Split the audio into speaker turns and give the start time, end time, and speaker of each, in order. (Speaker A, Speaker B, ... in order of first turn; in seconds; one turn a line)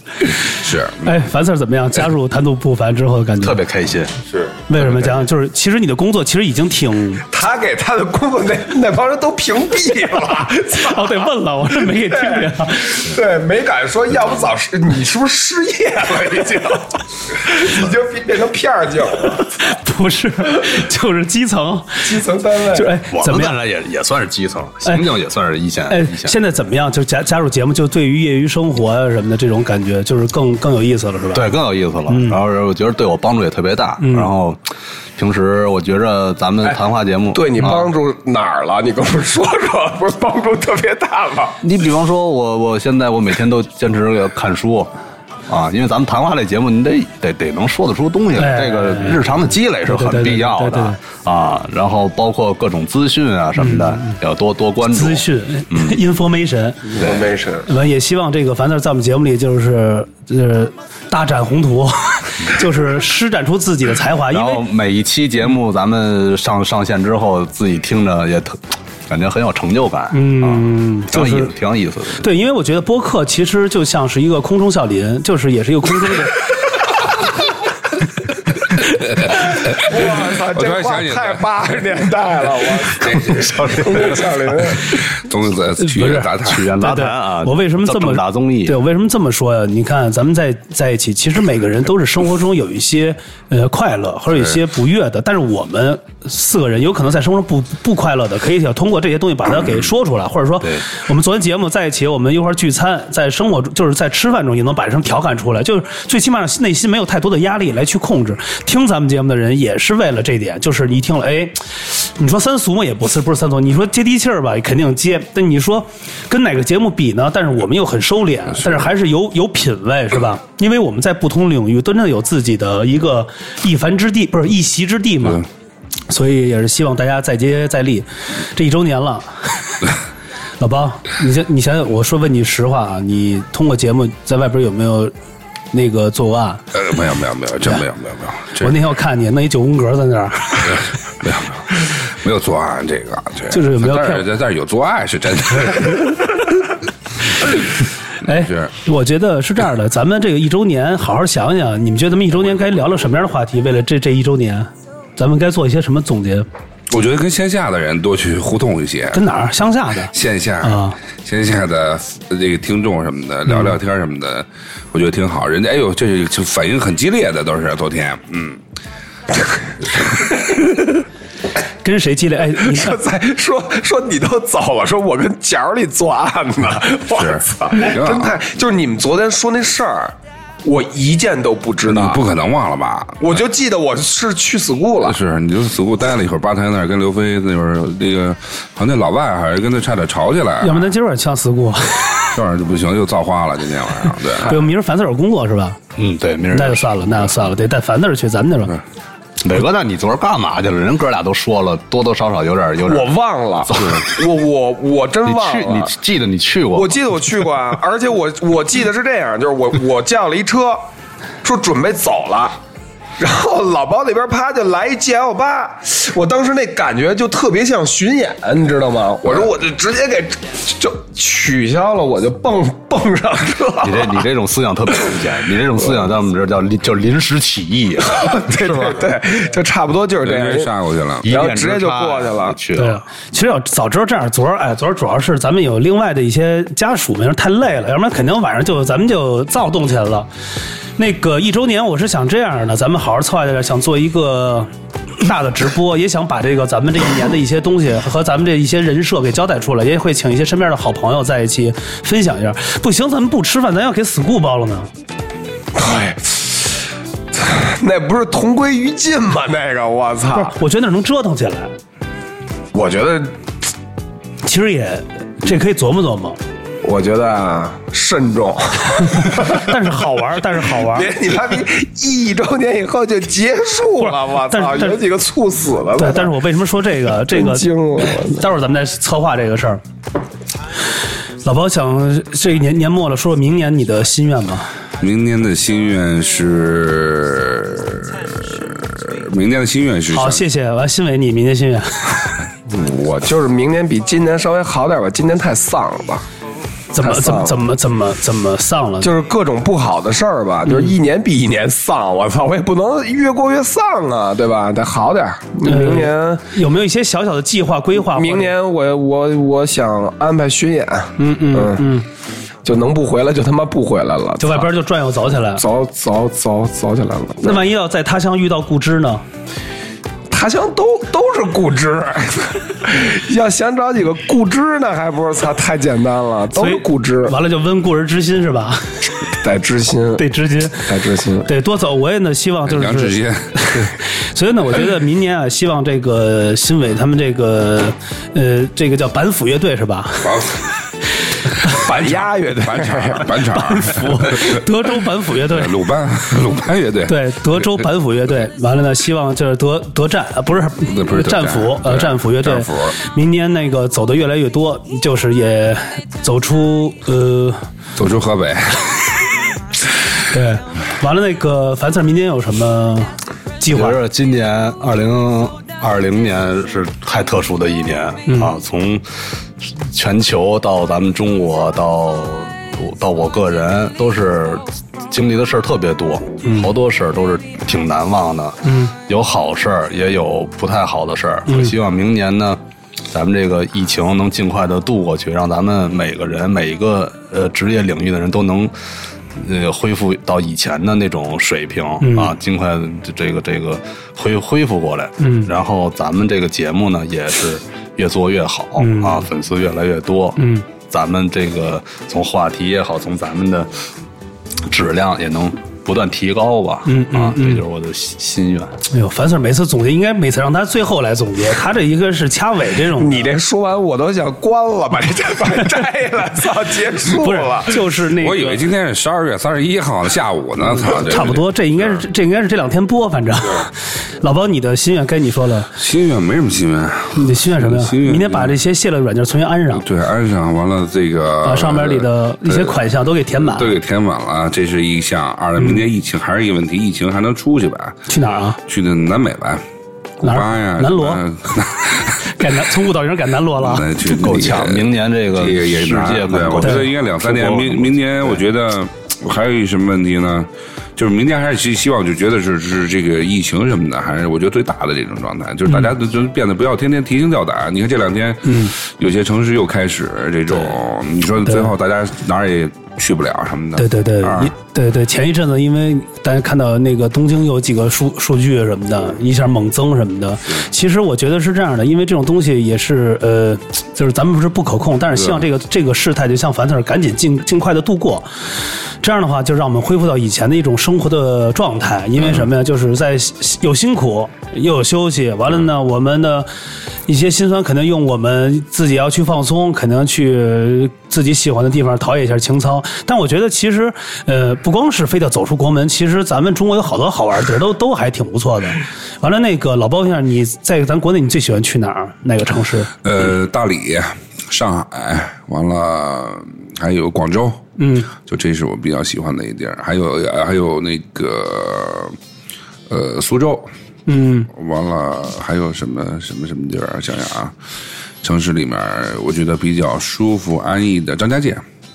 Speaker A: 0.5-1.2
Speaker B: 1.0-3.6
Speaker C: 3.4-4.1
Speaker A: 4.3-5.1
Speaker B: 4.7-7.2
Speaker D: 7.3-11.3
Speaker B: 10.8-13.1
Speaker D: 12.0-19.4
Speaker B: 19.5-22.1
Speaker D: 22.0-22.9
Speaker B: 22.7-23.6
Speaker C: 23.1-26.3
Speaker B: 25.9-31.5
Speaker C: 31.3-34.6
Speaker B: 32.1-32.4
Speaker B: 34.0-34.3
Speaker C: 35.2-37.9
Speaker D: 37.3-41.6
Speaker C: 41.6-44.9
Speaker C: 45.5-56.0
Speaker B: 48.4-49.2
Speaker B: 49.9-51.0
Speaker B: 53.6-54.1
Speaker B: 54.9-56.9
Speaker D: 56.9-57.7
Speaker B: 57.6-64.6
Speaker C: 64.3-72.2
Speaker B: 70.1-71.5
Speaker B: 72.2-76.5
Speaker A: 79.2-81.8
Speaker D: 79.2-84.9
Speaker A: 82.9-83.7
Speaker A: 84.8-86.7
Speaker B: 85.8-125.4
Speaker C: 86.4-88.8
Speaker B: 126.1-129.7
Speaker B: 130.6-135.1
Speaker B: 135.7-136.6
Speaker A: 136.7-138.8
Speaker B: 138.6-140.8
Speaker A: 140.7-146.4
Speaker B: 143.5-144.3
Speaker B: 148.2-156.5
Speaker A: 148.3-148.7
Speaker A: 156.9-159.2
Speaker B: 159.1-161.0
Speaker A: 160.1-168.6
Speaker B: 171.8-173.0
Speaker D: 172.6-182.2
Speaker A: 177.1-178.3
Speaker A: 181.8-183.4
Speaker D: 183.2-185.2
Speaker A: 185.0-190.9
Speaker B: 190.6-192.3
Speaker A: 192.3-194.6
Speaker B: 194.4-195.8
Speaker C: 195.9-197.0
Speaker B: 196.5-198.8
Speaker C: 199.4-203.1
Speaker D: 202.8-205.9
Speaker C: 203.7-204.1
Speaker C: 205.2-207.0
Speaker D: 206.7-210.8
Speaker D: 211.4-212.6
Speaker D: 213.2-224.2
Speaker C: 223.8-229.1
Speaker D: 228.1-230.7
Speaker A: 230.2-231.3
Speaker C: 231.2-233.0
Speaker D: 231.2-232.6
Speaker B: 232.8-240.3
Speaker B: 241.0-244.7
Speaker B: 245.2-254.9
Speaker D: 255.7-256.7
Speaker D: 257.3-260.5
Speaker B: 260.3-261.7
Speaker D: 262.7-263.3
Speaker B: 264.4-266.4
Speaker D: 266.8-269.7
Speaker B: 269.1-271.1
Speaker D: 270.8-276.3
Speaker B: 274.0-275.0
Speaker B: 276.0-279.8
Speaker D: 277.3-278.4
Speaker B: 281.4-284.7
Speaker A: 285.0-290.4
Speaker B: 290.1-292.4
Speaker D: 292.7-296.2
Speaker B: 296.9-299.1
Speaker D: 297.0-297.6
Speaker D: 299.0-306.4
Speaker B: 300.7-300.9
Speaker B: 305.6-308.5
Speaker D: 308.0-311.8
Speaker B: 311.2-312.1
Speaker D: 312.6-314.7
Speaker B: 314.4-315.6
Speaker D: 315.6-317.6
Speaker B: 317.4-319.2
Speaker D: 320.3-327.3
Speaker B: 326.5-328.9
Speaker D: 329.4-330.2
Speaker B: 330.2-330.9
Speaker D: 330.9-331.5
Speaker B: 331.4-340.4
Speaker A: 332.7-333.8
Speaker A: 340.2-340.6
Speaker B: 341.6-341.8
Speaker D: 341.6-343.4
Speaker A: 341.7-344.6
Speaker B: 343.5-345.7
Speaker A: 345.5-347.8
Speaker B: 347.1-357.6
Speaker A: 350.8-352.9
Speaker A: 357.9-359.2
Speaker B: 360.3-364.0
Speaker C: 363.7-369.0
Speaker B: 368.2-368.5
Speaker C: 369.6-382.6
Speaker B: 376.4-376.7
Speaker B: 378.6-378.9
Speaker B: 381.5-381.7
Speaker C: 383.1-388.7
Speaker C: 389.4-403.7
Speaker B: 392.0-392.3
Speaker B: 395.2-395.5
Speaker B: 398.8-399.2
Speaker B: 400.4-400.6
Speaker C: 404.7-408.7
Speaker B: 406.9-407.6
Speaker B: 408.9-413.3
Speaker D: 413.0-417.8
Speaker B: 417.1-418.7
Speaker A: 418.1-422.0
Speaker B: 420.9-425.7
Speaker A: 425.7-428.6
Speaker B: 427.1-429.9
Speaker A: 429.7-432.8
Speaker B: 431.4-433.7
Speaker A: 433.4-438.0
Speaker B: 435.6-435.8
Speaker B: 438.1-438.6
Speaker A: 438.6-439.6
Speaker B: 440.2-441.2
Speaker A: 440.2-442.3
Speaker B: 442.2-443.9
Speaker A: 443.6-464.5
Speaker C: 444.1-448.4
Speaker B: 458.4-458.7
Speaker B: 461.4-461.7
Speaker B: 463.8-478.3
Speaker A: 475.1-475.4
Speaker B: 479.0-486.5
Speaker B: 487.1-502.9
Speaker A: 503.0-512.2
Speaker B: 507.8-508.1
Speaker A: 512.9-513.7
Speaker B: 514.1-514.5
Speaker A: 514.5-517.5
Speaker A: 518.2-521.6